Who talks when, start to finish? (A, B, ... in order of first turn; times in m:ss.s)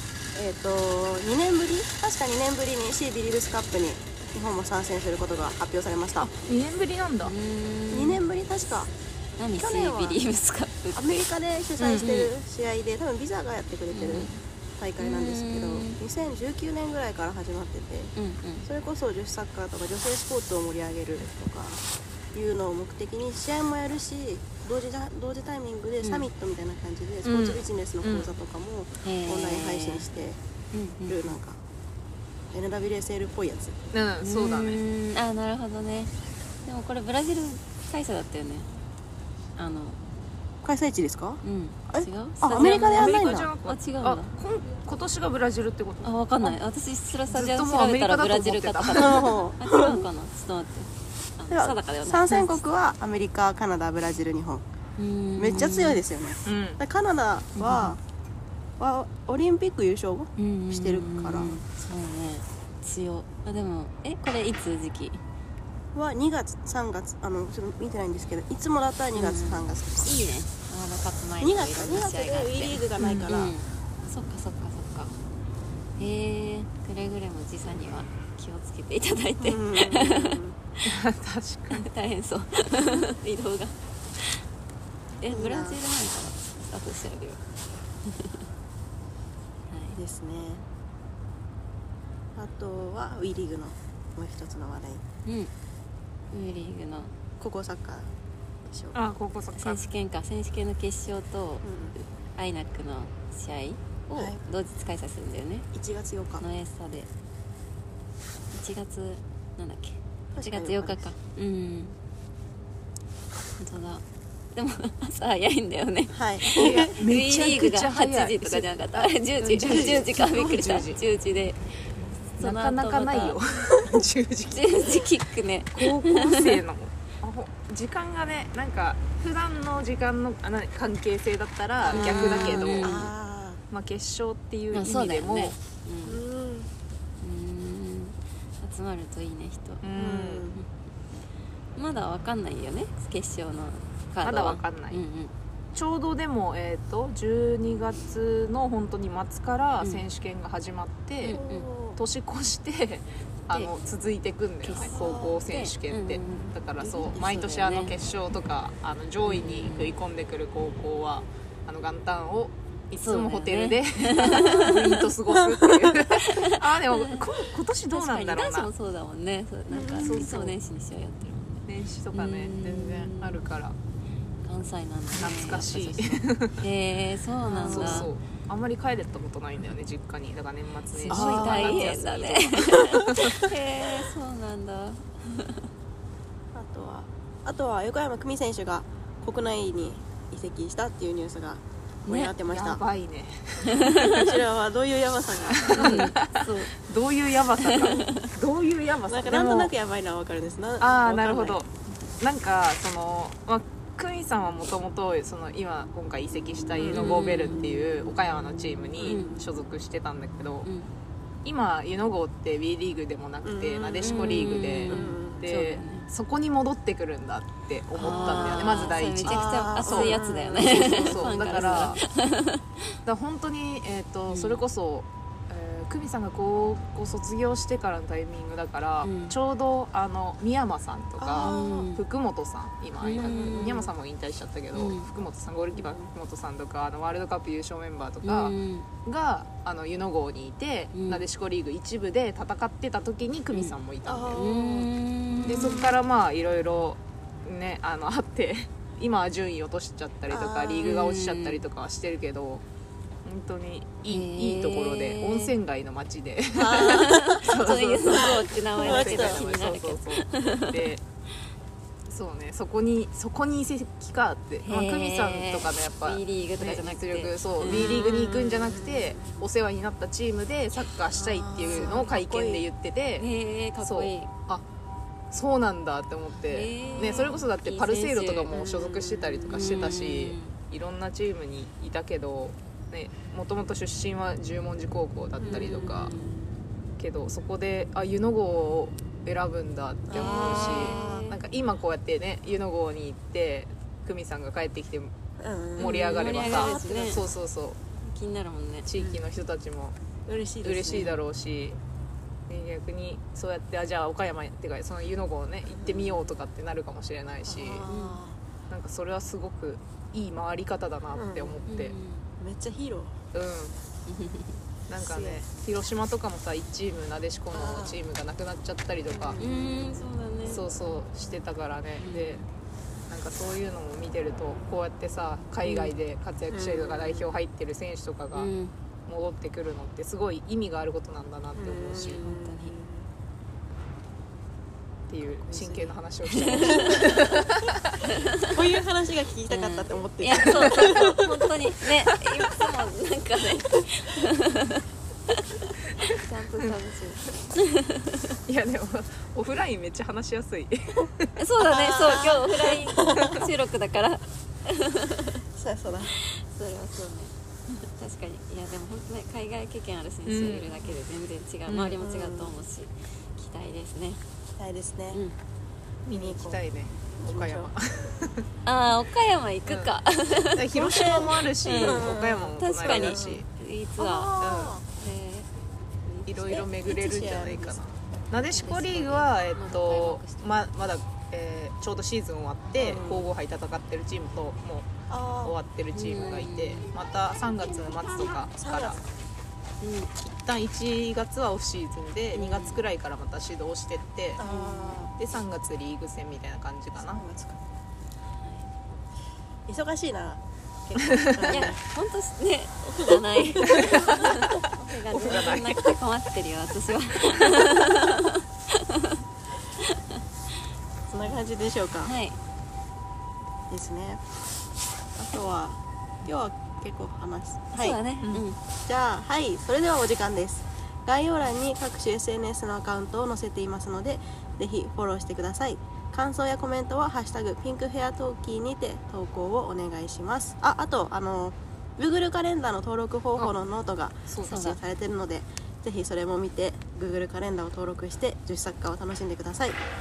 0:00.3-0:06.3 A
0:06.2-0:07.3 B
0:07.2-0:08.2 C
0:07.9-0:08.9 A
0:09.4-0:11.2 C
0:09.5-0:10.2 A
0:10.9-0:18.1 A
0:11.8-0:12.1 B
0:11.9-0:12.3 C
0:13.9-0:14.4 C
0:15.0-0:16.0 C
0:18.2-0:18.7 C
0:18.6-0:30.4 A
0:26.0-0:26.3 C
0:27.2-0:28.3 B
0:29.0-0:30.1 C
0:30.7-0:31.3 C
0:31.1-0:31.6 A
0:32.5-0:33.7 A
0:33.9-0:34.8 B
0:34.2-0:38.7 C
0:39.6-0:40.0 C
0:40.6-0:43.5 A
0:41.4-0:44.3 C
0:42.5-0:46.6 B
0:46.0-0:52.6 C
0:47.3-0:49.4 B
0:48.9-0:50.1 A
0:51.5-0:54.6 A
0:55.0-0:56.0 C
0:55.4-0:58.0 A
0:56.4-0:56.8 B
0:57.6-0:58.0 C
0:58.8-1:01.6 A
1:00.4-1:05.2 C
1:05.9-1:10.1 A
1:09.1-1:15.2 C
1:11.4-1:13.5 A
1:13.0-1:13.3 B
1:16.0-1:20.4 C
1:19.4-1:20.6 A
1:20.8-1:21.8 B
1:21.7-1:24.4 C
1:25.2-1:27.4 C
1:25.3-1:25.8 A
1:28.0-1:28.4 C
1:29.7-1:30.0 C
1:29.9-1:30.6 A
1:32.4-1:35.0 A
1:35.2-1:35.5 C
1:36.3-1:37.1 C
1:37.4-1:38.1 A
1:38.6-1:39.0 A
1:38.9-1:39.9 B
1:39.6-1:45.7 C
1:41.6-1:41.9 A
1:44.1-1:44.4 A
1:45.7-1:46.4 A
1:46.4-1:47.1 C
1:48.5-1:52.0 C
1:50.3-1:51.1 A
1:53.6-1:54.0 C
1:54.5-2:01.6 C
1:56.1-1:57.0 A
1:56.4-2:01.0 B
1:59.7-2:00.0 A
2:02.3-2:03.4 C
2:02.4-2:05.0 B
2:04.5-2:06.6 C
2:05.7-2:13.0 B
2:11.9-2:13.6 A
2:11.9-2:13.1 C
2:13.7-2:15.6 B
2:14.7-2:16.2 C
2:16.0-2:16.7 A
2:17.2-2:19.8 C
2:19.8-2:20.4 B
2:20.0-2:20.6 A
2:21.8-2:25.3 C
2:24.2-2:25.0 B
2:25.7-2:31.4 B
2:29.8-2:30.1 C
2:31.2-2:31.7 C
2:31.3-2:32.0 A
2:32.0-2:48.7 B
2:34.6-2:37.9 C
2:34.8-2:35.4 A
2:39.3-2:39.9 C
2:43.0-2:45.1 C
2:44.3-2:46.0 A
2:46.2-2:47.2 C
2:47.9-2:53.4 C
2:49.7-2:50.3 A
2:49.9-2:50.6 B
2:51.6-2:53.8 B
2:54.4-2:58.1 C
2:55.2-2:56.6 B
2:57.5-3:03.4 B
2:57.6-2:58.1 A
3:00.9-3:05.7 C
3:01.1-3:02.0 A
3:06.5-3:12.8 A
3:12.0-3:12.3 C
3:12.4-3:14.4 B
3:13.8-3:14.1 C
3:14.1-3:16.1 A
3:15.4-3:19.7 B
3:15.8-3:16.7 C
3:17.6-3:18.3 C
3:19.1-3:21.6 A
3:20.8-3:30.7 B
3:26.8-3:27.2 A
3:26.9-3:27.7 C
3:29.0-3:29.2 A
3:29.0-3:29.5 C
3:30.6-3:30.9 C
3:31.4-3:42.0 B
3:33.4-3:35.5 A
3:34.0-3:36.1 C
3:37.9-3:42.7 C
3:38.0-3:41.9 A
3:43.0-3:58.5 B
3:44.3-3:44.6 C
3:49.0-3:49.4 C
3:51.2-3:51.9 A
3:51.4-3:52.0 C
3:53.0-3:53.8 C
3:53.2-3:53.9 A
3:54.7-3:55.1 C
3:55.7-3:56.1 A
3:58.2-3:58.9 C
3:59.0-4:04.4 B
4:00.9-4:01.2 C
4:04.0-4:06.0 A
4:04.3-4:05.8 C
4:05.4-4:12.6 B
4:10.3-4:10.9 A
4:10.8-4:11.6 C
4:13.2-4:21.0 B
4:14.1-4:15.5 C
4:16.5-4:17.5 A
4:16.8-4:20.8 C
4:18.1-4:19.4 A
4:22.1-4:33.3 B
4:24.6-4:28.0 C
4:27.6-4:29.5 A
4:31.1-4:32.6 A
4:31.7-4:32.1 C
4:33.2-4:34.3 C
4:33.8-4:34.6 B
4:35.3-4:46.1 B
4:36.4-4:38.6 C
4:36.8-4:37.5 A
4:38.5-4:39.9 A
4:39.5-4:40.5 C
4:45.4-4:46.3 A
4:45.4-4:46.4 C
4:47.0-4:55.1 B
4:50.1-4:51.3 A
4:50.1-4:51.4 C
4:55.4-4:57.4 A
4:55.8-4:57.8 B
4:55.8-4:57.2 C
4:58.0-4:58.9 C
4:58.8-4:59.9 B
5:00.3-5:01.2 A
5:00.6-5:01.8 B
5:00.9-5:01.2 C
5:02.5-5:07.8 B
5:05.6-5:06.3 A
5:07.4-5:08.4 A
5:07.9-5:08.2 C
5:08.7-5:11.9 B
5:11.1-5:11.6 A
5:11.7-5:12.3 C
5:12.4-5:13.2 A
5:13.3-5:13.8 B
5:14.1-5:14.6 C
5:14.9-5:19.4 B
5:14.9-5:15.4 A
5:17.5-5:18.0 A
5:19.1-5:20.2 A
5:19.4-5:20.6 C
5:20.4-5:22.4 B
5:22.0-5:22.5 C
5:23.1-5:28.5 B
5:25.6-5:26.0 C
5:26.5-5:27.3 A
5:28.3-5:28.7 C
5:29.1-5:32.3 B
5:31.6-5:33.1 A
5:32.0-5:32.7 C
5:35.1-5:37.9 B
5:35.4-5:37.7 A
5:36.4-5:37.3 C
5:38.1-5:38.4 C
5:38.4-5:41.5 A
5:39.5-5:48.4 C
5:40.3-5:40.9 B
5:48.5-5:51.3 B
5:51.4-5:55.4 C
5:51.7-5:53.4 A
5:53.2-5:53.5 B
5:55.5-5:56.1 A
5:56.1-6:04.2 C
6:00.2-6:00.7 B
6:01.6-6:02.0 B
6:02.0-6:02.5 A
6:04.6-6:05.2 A
6:06.0-6:08.4 B
6:06.1-6:06.6 A
6:07.2-6:07.7 A
6:08.6-6:15.5 C
6:09.7-6:09.9 B
6:10.5-6:13.4 B
6:10.7-6:13.4 A
6:14.0-6:14.8 A
6:14.4-6:14.8 B
6:16.0-6:16.6 C
6:16.2-6:29.0 B
6:16.4-6:17.8 A
6:18.4-6:20.7 C
6:22.7-6:23.3 A
6:25.1-6:25.6 A
6:25.9-6:26.9 C
6:28.5-6:29.0 A
6:29.8-6:30.1 C
6:30.2-6:34.4 B
6:32.3-6:32.8 C
6:34.4-6:35.1 A
6:34.4-6:35.1 C
6:35.2-6:37.2 B
6:37.0-6:37.6 A
6:38.4-6:38.7 C
6:39.7-6:41.8 A
6:41.5-6:49.2 C
6:43.5-6:45.6 A
6:43.6-6:44.5 B
6:45.1-6:45.9 B
6:47.3-6:47.7 B
6:49.8-6:50.2 C
6:51.1-6:52.1 A
6:52.0-6:52.4 C
6:53.7-6:54.2 A
6:55.2-6:58.0 A
6:57.7-6:58.6 C
6:58.8-7:19.8 A
7:14.3-7:14.6 B
7:14.5-7:14.8 C